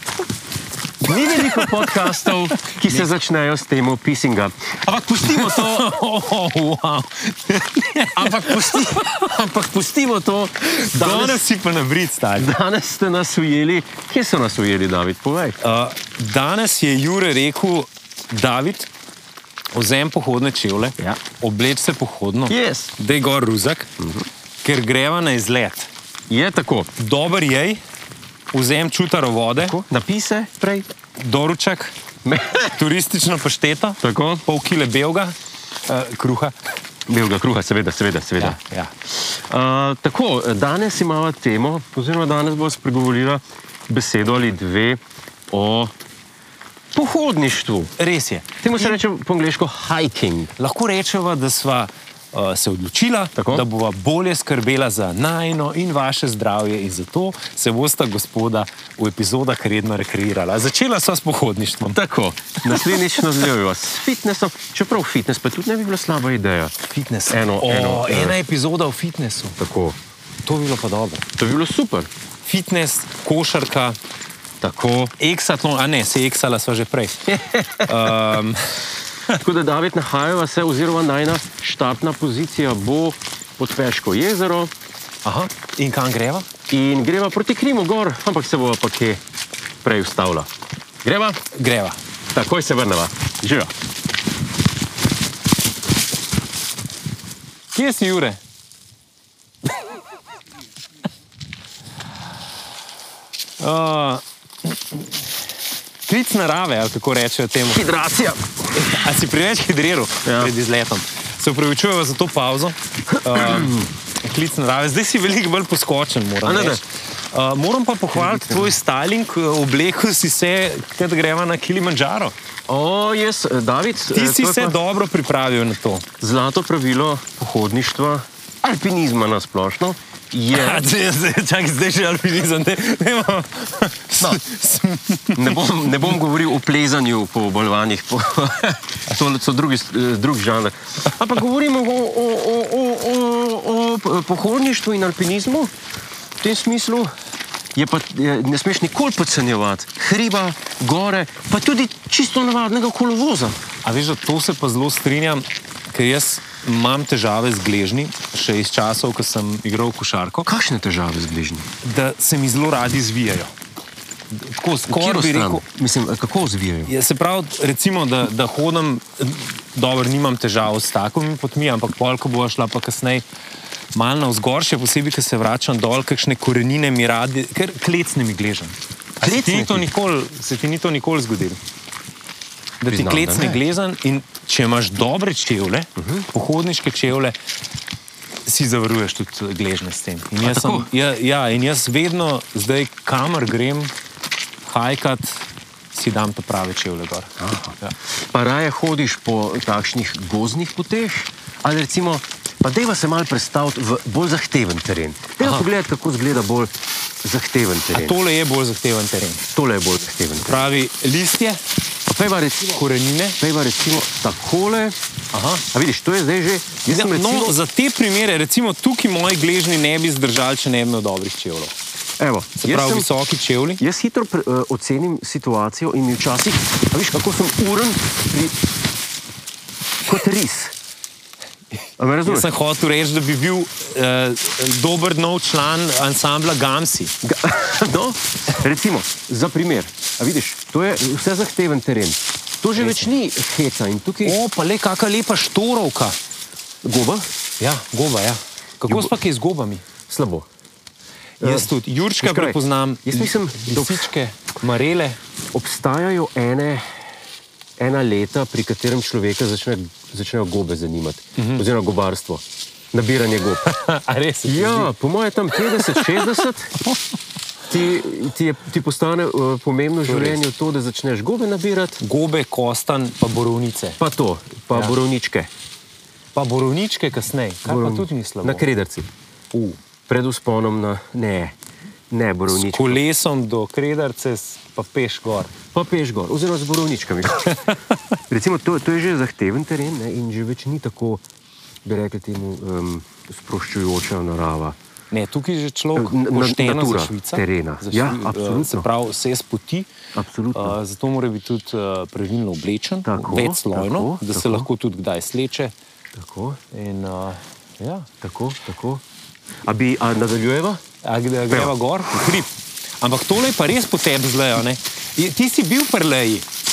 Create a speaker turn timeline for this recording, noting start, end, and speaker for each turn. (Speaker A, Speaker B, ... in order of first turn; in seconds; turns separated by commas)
Speaker A: 1.0-5.9, Speaker B: 1.3-3.1, Speaker B: 5.2-9.2, Speaker A: 8.2-11.4, Speaker B: 10.7-12.6, Speaker A: 12.3-15.6, Speaker B: 15.6-18.9, Speaker B: 19.7-23.9, Speaker A: 22.5-22.9, Speaker A: 24.0-24.3, Speaker B: 24.6-25.9, Speaker A: 26.3-26.9, Speaker B: 27.0-27.8, Speaker B: 28.5-29.8, Speaker A: 29.6-30.9, Speaker B: 31.2-31.9, Speaker A: 32.2-32.8, Speaker B: 32.7-35.3, Speaker A: 34.0-34.4, Speaker B: 35.9-36.5, Speaker A: 37.1-38.6, Speaker B: 38.4-38.9, Speaker A: 39.1-45.9, Speaker A: 46.9-47.9, Speaker B: 48.0-49.0, Speaker A: 48.6-50.5, Speaker B: 50.6-62.0, Speaker A: 53.4-53.6, Speaker A: 61.9-66.7, Speaker B: 62.7-63.0, Speaker B: 66.9-69.5, Speaker A: 67.3-68.4, Speaker A: 69.6-70.0, Speaker B: 70.4-71.2, Speaker A: 71.4-72.1, Speaker B: 72.4-74.0, Speaker A: 74.6-75.1, Speaker B: 75.2-78.8, Speaker A: 77.3-78.1, Speaker A: 79.4-84.7, Speaker B: 85.2-86.5, Speaker A: 86.7-89.2, Speaker A: 89.8-90.5, Speaker A: 91.0-91.4, Speaker B: 91.5-92.0, Speaker A: 92.3-93.7, Speaker B: 97.7-98.4, Speaker B: 103.6-105.2, Speaker B: 106.0-107.9, Speaker A: 107.6-109.0, Speaker B: 108.7-122.3, Speaker A: 110.2-110.5, Speaker A: 113.3-113.9, Speaker A: 116.4-116.8, Speaker A: 118.1-118.8, Speaker A: 122.7-124.8, Speaker B: 124.1-126.0, Speaker A: 126.2-130.9, Speaker B: 130.5-136.2, Speaker A: 135.3-145.7, Speaker A: 146.4-147.1, Speaker A: 147.7-153.6, Speaker B: 153.8-160.5, Speaker A: 160.4-161.7, Speaker B: 161.8-163.5, Speaker B: 164.3-165.6, Speaker A: 164.9-166.9, Speaker B: 166.9-173.2, Speaker B: 173.9-181.6, Speaker A: 179.2-179.9, Speaker B: 182.8-187.3, Speaker A: 182.9-183.6, Speaker A: 186.0-186.3, Speaker B: 188.4-193.9, Speaker A: 190.4-190.9, Speaker B: 194.7-197.9, Speaker A: 197.4-197.8, Speaker A: 198.3-206.7, Speaker B: 205.4-205.7, Speaker A: 207.2-208.2, Speaker B: 207.9-209.4, Speaker A: 209.5-210.7, Speaker B: 210.4-211.6, Speaker A: 212.1-212.8, Speaker B: 212.7-213.4, Speaker A: 213.4-215.0, Speaker B: 215.3-215.6, Speaker A: 215.7-217.6, Speaker B: 216.8-221.7, Speaker A: 222.2-223.1, Speaker B: 222.6-223.8, Speaker A: 223.8-228.6, Speaker A: 230.0-230.7, Speaker A: 232.0-232.5, Speaker B: 232.2-237.1, Speaker A: 237.2-244.4, Speaker B: 242.8-243.1, Speaker B: 244.2-246.2, Speaker A: 246.8-247.3, Speaker B: 247.6-249.8, Speaker A: 248.8-249.1, Speaker A: 250.1-250.4, Speaker B: 251.4-255.2, Speaker A: 251.4-254.1, Speaker A: 255.5-256.9, Speaker A: 257.8-263.6, Speaker B: 261.4-261.6, Speaker B: 263.6-264.9, Speaker A: 264.4-266.8, Speaker B: 265.8-266.2, Speaker A: 267.7-272.0, Speaker B: 270.1-270.4, Speaker B: 272.0-274.0, Speaker A: 274.0-275.5, Speaker B: 276.3-278.6, Speaker A: 277.6-279.1, Speaker B: 279.5-279.8, Speaker A: 280.1-281.5, Speaker A: 282.1-283.0, Speaker B: 282.5-285.5, Speaker A: 285.7-287.6, Speaker A: 288.3-291.2, Speaker A: 291.8-294.8, Speaker B: 295.1-299.9, Speaker A: 295.9-298.9, Speaker A: 300.1-300.8, Speaker B: 300.5-305.7, Speaker A: 303.0-304.7, Speaker A: 306.1-306.6, Speaker B: 306.7-308.1, Speaker A: 308.2-309.0, Speaker A: 309.6-310.8, Speaker B: 311.0-316.4, Speaker A: 311.5-312.4